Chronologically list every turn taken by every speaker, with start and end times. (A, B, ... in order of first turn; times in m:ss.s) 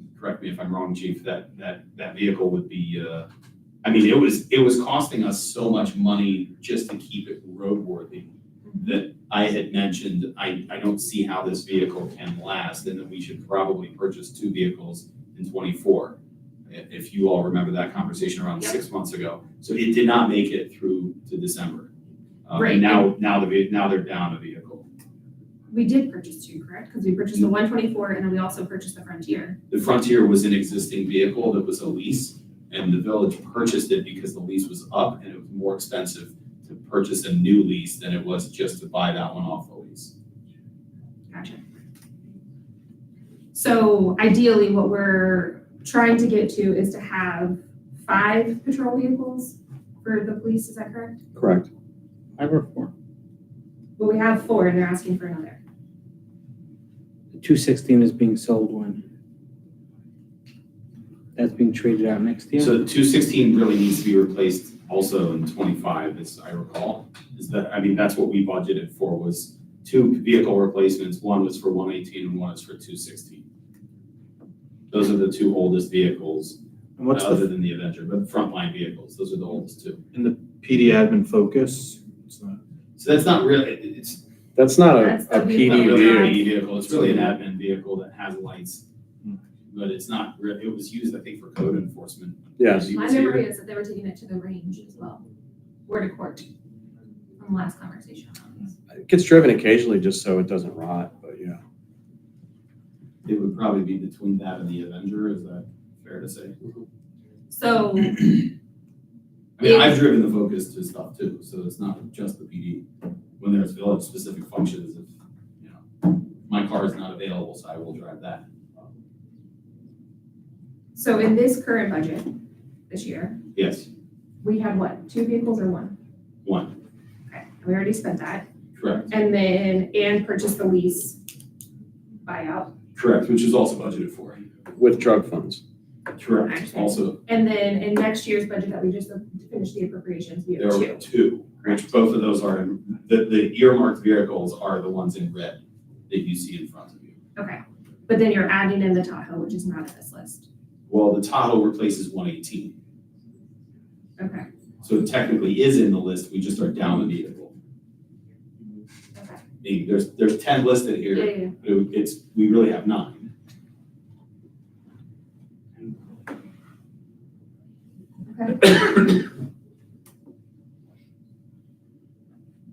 0:00.2-0:03.3 A
0:03.8-0:08.3 A
0:08.6-0:09.0 B
0:08.8-0:16.2 A
0:16.7-0:21.9 A
0:22.4-0:24.9 A
0:22.5-0:23.1 B
0:25.7-0:29.6 B
0:29.7-0:40.1 A
0:41.3-0:41.6 B
0:43.5-0:51.2 B
0:51.3-0:51.7 C
0:52.4-0:52.9 D
0:54.0-0:55.6 B
0:57.4-0:59.0 D
1:01.4-1:02.8 D
1:02.6-1:13.4 A
1:14.9-1:16.6 A
1:17.0-1:17.5 E
1:17.1-1:20.0 A
1:20.1-1:22.6 E
1:23.0-1:24.2 A
1:24.5-1:26.4 C
1:24.9-1:26.5 B
1:25.6-1:28.8 A
1:29.7-1:33.4 A
1:32.6-1:32.9 C
1:32.9-1:35.2 B
1:35.9-1:36.5 B
1:37.4-1:38.7 B
1:38.9-1:41.6 C
1:43.2-1:46.6 A
1:47.5-1:48.5 B
1:49.6-1:52.8 A
1:49.6-1:50.0 B
1:53.4-1:55.1 A
1:56.4-1:58.4 A
2:00.9-2:02.3 B
2:02.9-2:03.4 B
2:03.5-2:03.9 A
2:04.4-2:06.0 B
2:06.4-2:06.8 A
2:07.3-2:08.5 B
2:08.8-2:09.1 A
2:09.1-2:11.2 B
2:12.2-2:12.7 B
2:12.9-2:14.4 A
2:14.8-2:15.6 C
2:16.2-2:17.2 A
2:16.4-2:21.0 B
2:20.6-2:27.2 A
2:27.4-2:30.4 B
2:30.9-2:32.7 A
2:34.2-2:34.5 B
2:34.8-2:37.5 A
2:39.1-2:39.4 B
2:39.6-2:43.3 A
2:41.1-2:41.5 B
2:48.3-2:48.8 B